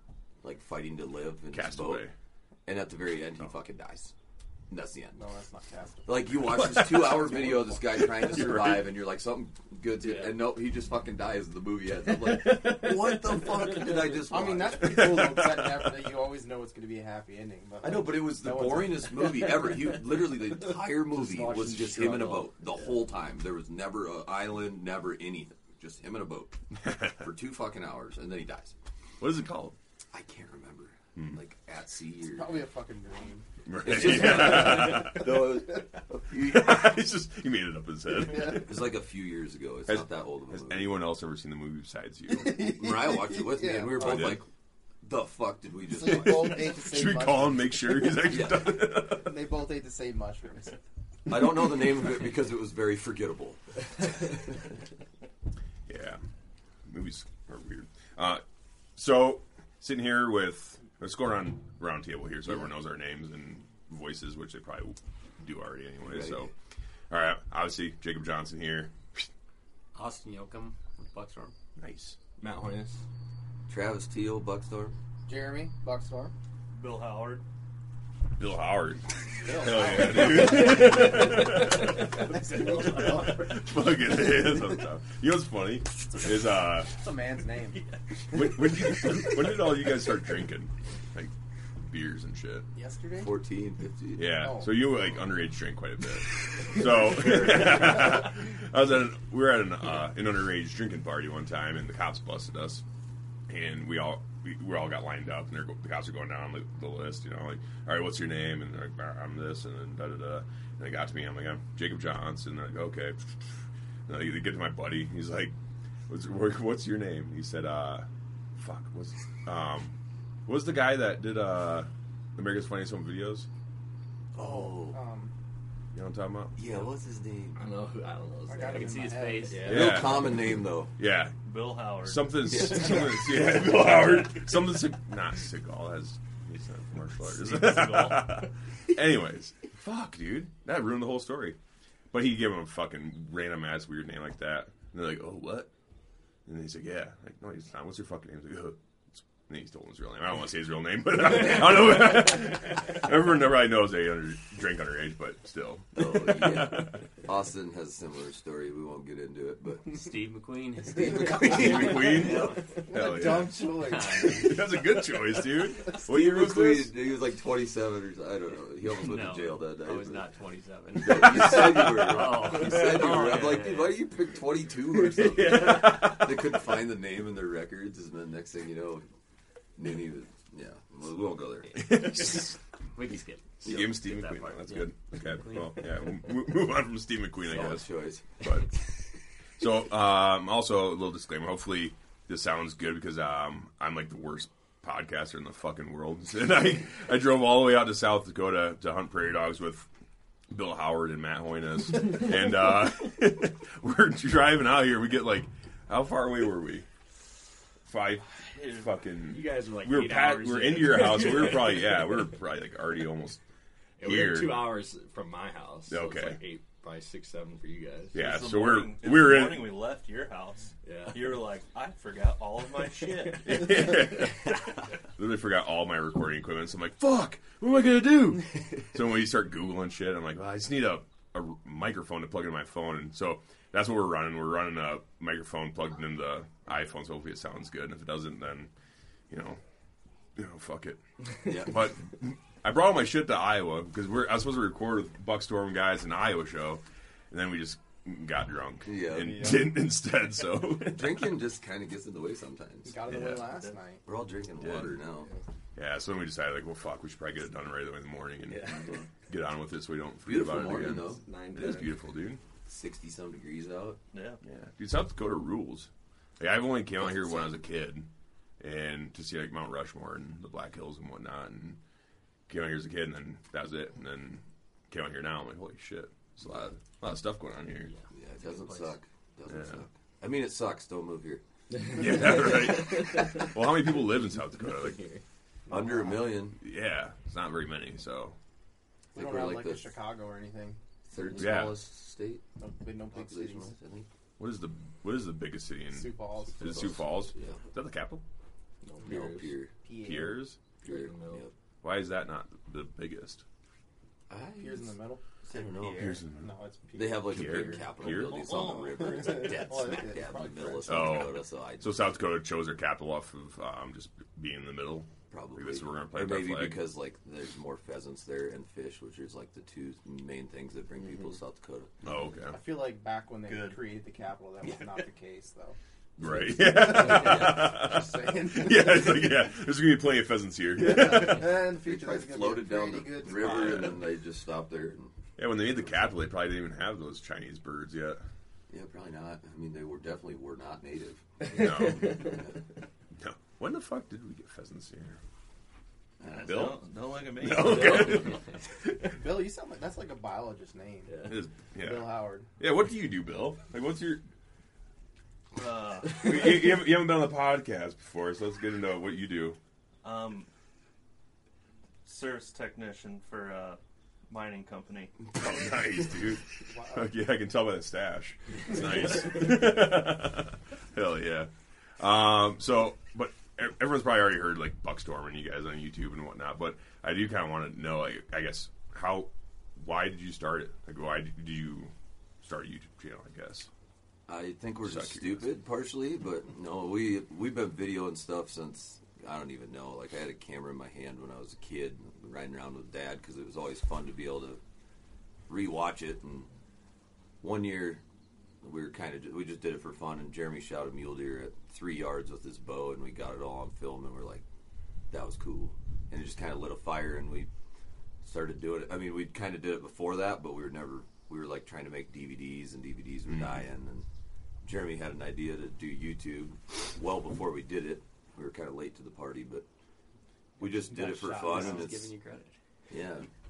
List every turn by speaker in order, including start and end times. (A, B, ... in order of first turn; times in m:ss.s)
0:00.4-0:02.1 A
0:01.5-0:02.1 B
0:02.6-0:04.1 A
0:04.7-0:05.2 A
0:05.1-0:08.7 C
0:06.0-0:15.3 A
0:06.6-0:07.2 B
0:08.2-0:08.9 B
0:12.1-0:14.1 D
0:14.2-0:19.6 C
0:14.8-0:16.1 B
0:17.8-0:28.8 A
0:21.2-0:22.4 D
0:21.6-0:22.3 E
0:26.8-0:27.1 B
0:29.2-0:29.8 B
0:30.1-0:32.6 A
0:32.3-0:35.6 C
0:33.6-0:38.7 B
0:33.8-0:37.0 A
0:38.1-0:38.6 C
0:38.3-0:41.0 A
0:39.8-0:42.6 B
0:42.3-0:44.4 C
0:42.5-0:44.5 A
0:44.0-0:44.4 B
0:45.0-0:46.7 A
0:45.8-0:48.1 C
0:46.2-0:49.4 B
0:48.2-0:48.9 A
0:48.7-0:50.8 C
0:51.3-0:53.6 A
0:55.9-0:56.2 B
0:56.9-0:58.4 B
0:59.0-1:06.5 B
1:06.0-1:06.5 A
1:07.1-1:09.2 B
1:09.9-1:11.5 D
1:11.8-1:12.2 B
1:12.4-1:13.0 E
1:13.7-1:15.0 A
1:15.2-1:16.3 C
1:16.7-1:17.4 F
1:18.4-1:26.9 B
1:19.4-1:24.2 C
1:26.9-1:27.8 C
1:28.3-1:32.6 B
1:32.7-1:33.3 C
1:33.2-1:34.3 A
1:34.2-1:42.8 B
1:34.3-1:34.9 C
1:37.3-1:37.9 A
1:43.5-1:53.4 B
1:54.1-1:55.5 B
1:56.1-1:59.9 B
2:00.4-2:03.5 B
2:04.3-2:05.0 A
2:04.4-2:05.3 C
2:05.9-2:06.6 B
2:06.6-2:07.6 A
2:07.6-2:10.2 E
2:08.5-2:09.7 C
2:08.6-2:09.7 D
2:09.6-2:10.9 A
2:09.6-2:11.3 B
2:11.4-2:12.5 F
2:12.0-2:21.6 B
2:12.4-2:13.2 A
2:17.5-2:18.2 D
2:22.1-2:25.7 B
2:26.4-2:37.0 B
2:35.9-2:40.0 A
2:39.8-2:44.6 D
2:40.9-2:42.5 A
2:41.4-2:46.9 B
2:42.8-2:44.6 C
2:45.9-2:50.3 A
2:48.8-2:54.1 D
2:50.9-2:59.0 A
2:54.9-2:56.5 D
2:59.8-3:02.0 A
3:01.7-3:02.5 B
3:01.8-3:06.0 D
3:03.6-3:07.8 B
3:03.6-3:04.0 A
3:07.4-3:08.6 A
3:08.4-3:08.8 B
3:09.6-3:19.9 B
3:20.5-3:26.9 B
3:27.9-3:33.4 B
3:28.3-3:29.0 F
3:29.3-3:31.9 E
3:34.0-3:38.2 E
3:34.0-3:34.8 B
3:35.9-3:36.4 B
3:38.1-3:39.7 B
3:38.1-3:43.7 F
3:40.8-3:41.4 E
3:43.4-3:58.7 B
3:43.6-3:43.9 E
3:59.3-3:59.6 B
4:00.4-4:11.3 B
4:01.4-4:01.9 A
4:08.8-4:09.7 A
4:10.7-4:13.0 A
4:12.8-4:14.0 C
4:13.1-4:13.4 B
4:13.4-4:13.8 F
4:14.0-4:15.3 A
4:14.6-4:15.0 B
4:15.7-4:22.4 B
4:18.5-4:19.0 E
4:20.2-4:21.3 A
4:21.1-4:22.0 E
4:22.6-4:24.0 A
4:24.1-4:24.4 F
4:24.4-4:28.1 B
4:27.0-4:27.6 A
4:28.6-4:31.8 B
4:32.5-4:37.9 B
4:36.4-4:36.7 A
4:37.8-4:39.0 D
4:38.1-4:41.4 A
4:39.5-4:39.8 B
4:41.8-4:43.4 E
4:41.8-4:45.0 B
4:41.9-4:42.9 A
4:44.6-4:45.2 E
4:45.7-4:46.3 C
4:45.7-4:46.6 A
4:46.6-4:48.4 B
4:49.1-4:50.8 C
4:49.1-4:49.9 A
4:51.1-4:52.4 A
4:51.3-4:51.8 B
4:52.6-4:53.8 C
4:53.1-4:54.1 A
4:54.4-4:58.2 B
4:55.9-4:57.1 C
4:56.6-4:57.6 A
4:58.8-4:59.6 E
4:59.0-4:59.7 A
4:59.8-5:00.5 C
5:00.0-5:00.6 B
5:00.8-5:01.5 A
5:00.8-5:01.5 E
5:01.8-5:03.4 B
5:04.3-5:04.9 A
5:04.6-5:05.2 C
5:05.4-5:06.2 F
5:05.5-5:06.1 A
5:05.9-5:06.5 B
5:06.3-5:11.4 C
5:06.9-5:12.1 A
5:07.3-5:08.4 B
5:10.9-5:16.8 B
5:15.3-5:21.9 A
5:22.0-5:22.6 B
5:22.5-5:25.8 C
5:23.4-5:23.8 F
5:26.2-5:27.7 A
5:26.2-5:31.6 B
5:26.4-5:29.4 C
5:30.8-5:34.0 C
5:31.6-5:35.1 A
5:35.4-5:38.2 B
5:38.7-5:42.6 A
5:41.4-5:42.4 B
5:41.8-5:42.3 E
5:43.2-5:45.2 B
5:46.2-5:46.7 A
5:46.3-5:48.4 F
5:46.4-5:46.8 B
5:47.4-5:48.4 B
5:49.0-5:52.5 C
5:51.2-5:54.2 B
5:55.5-5:56.6 F
5:56.2-5:59.6 B
6:00.0-6:00.5 F
6:02.0-6:05.1 F
6:05.3-6:23.7 B
6:06.7-6:07.1 C
6:24.3-6:34.6 A
6:24.8-6:25.4 B
6:35.5-6:36.5 A
6:37.4-6:38.0 A
6:38.6-6:44.4 A
6:45.1-6:47.5 A
6:48.2-6:54.0 A
6:53.3-6:53.6 B
6:54.6-6:59.6 A
7:00.6-7:02.1 A
7:00.9-7:02.6 D
7:01.2-7:01.7 C
7:02.9-7:03.3 A